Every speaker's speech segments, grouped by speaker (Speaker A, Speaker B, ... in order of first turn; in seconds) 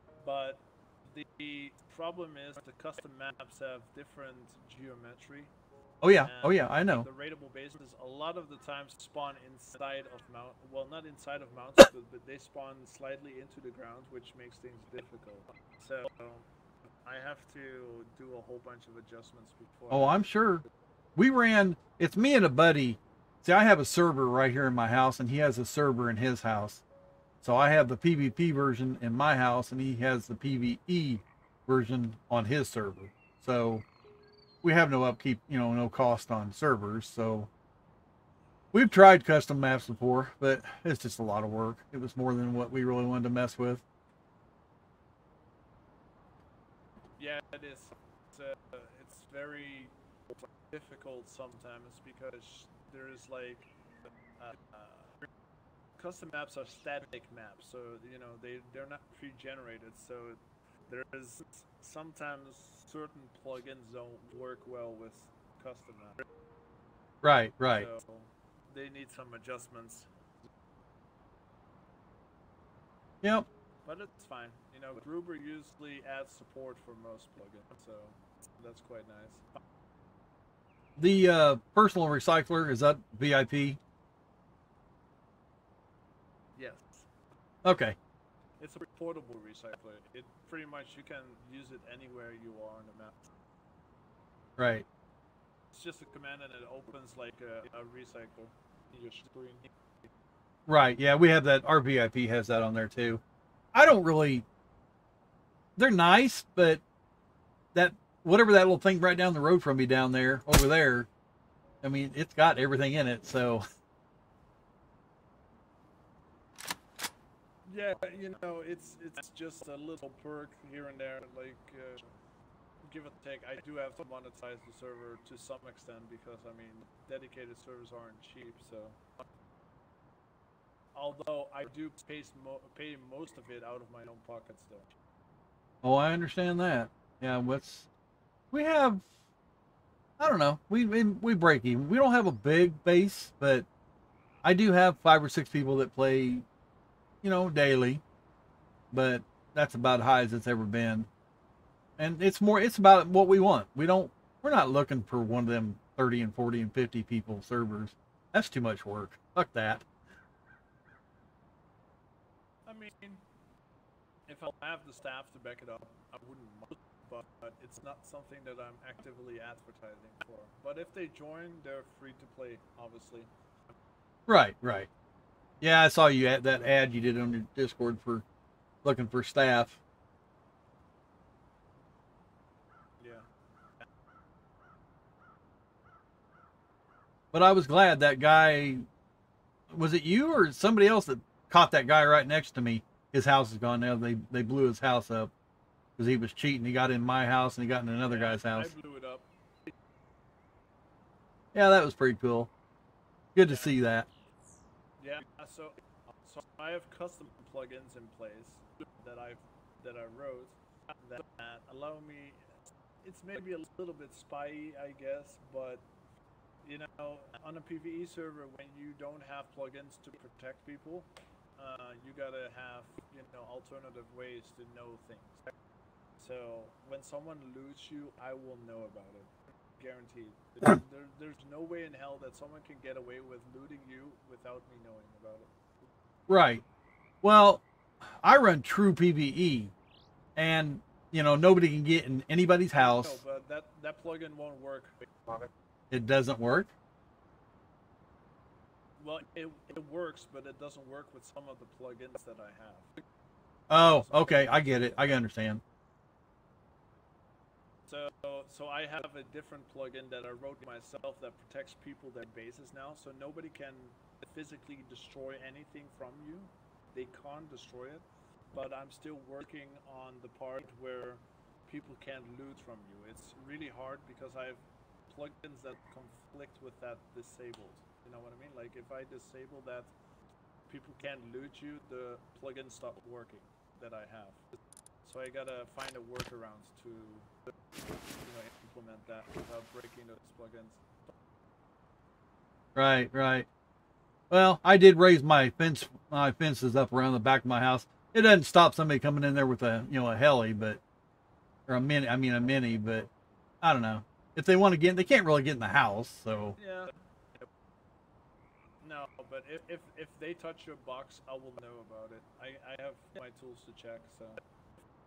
Speaker A: 0.2-5.5, 6.2-16.5, 17.0-20.2, 47.2-53.7, 54.4-55.2, 56.0-66.2, 67.7-70.1, 73.8-79.6, 86.5-87.1, 88.6-93.3, 95.7-99.7, 117.7-122.1, 122.8-129.0, 130.9-134.9, 162.7-163.2, 164.3-173.7, 183.0-183.3, 198.0-199.3, 203.4-203.8, 205.0-215.9, 216.6-225.5, 226.2-235.5, 242.7-245.5, 249.0-252.9, 254.0-254.5, 257.9-279.9, 280.7-284.4, 285.0-287.3, 288.2-291.1, 306.6-307.5, 308.8-314.4
Speaker B: 6.0-7.1, 19.9-20.6, 21.1-26.8, 27.4-33.8, 34.6-37.5, 38.7-43.8, 67.2-67.9, 73.2-73.5, 81.0-83.8, 87.6-88.0, 94.6-94.8, 100.7-103.2, 103.7-104.5, 105.8-106.8, 107.7-111.1, 111.8-113.6, 135.8-137.9, 138.5-139.1, 140.2-143.7, 144.4-146.4, 147.2-148.0, 148.9-151.1, 152.0-159.9, 174.3-174.9, 175.6-178.2, 178.8-179.8, 187.3-188.8, 189.7-195.3, 196.0-198.7, 201.5-202.5, 203.3-204.1, 236.3-236.6, 237.2-239.7, 240.3-243.2, 245.9-246.7, 253.7-255.6, 292.7-293.5, 294.3-300.8, 301.7-303.1, 303.6-306.6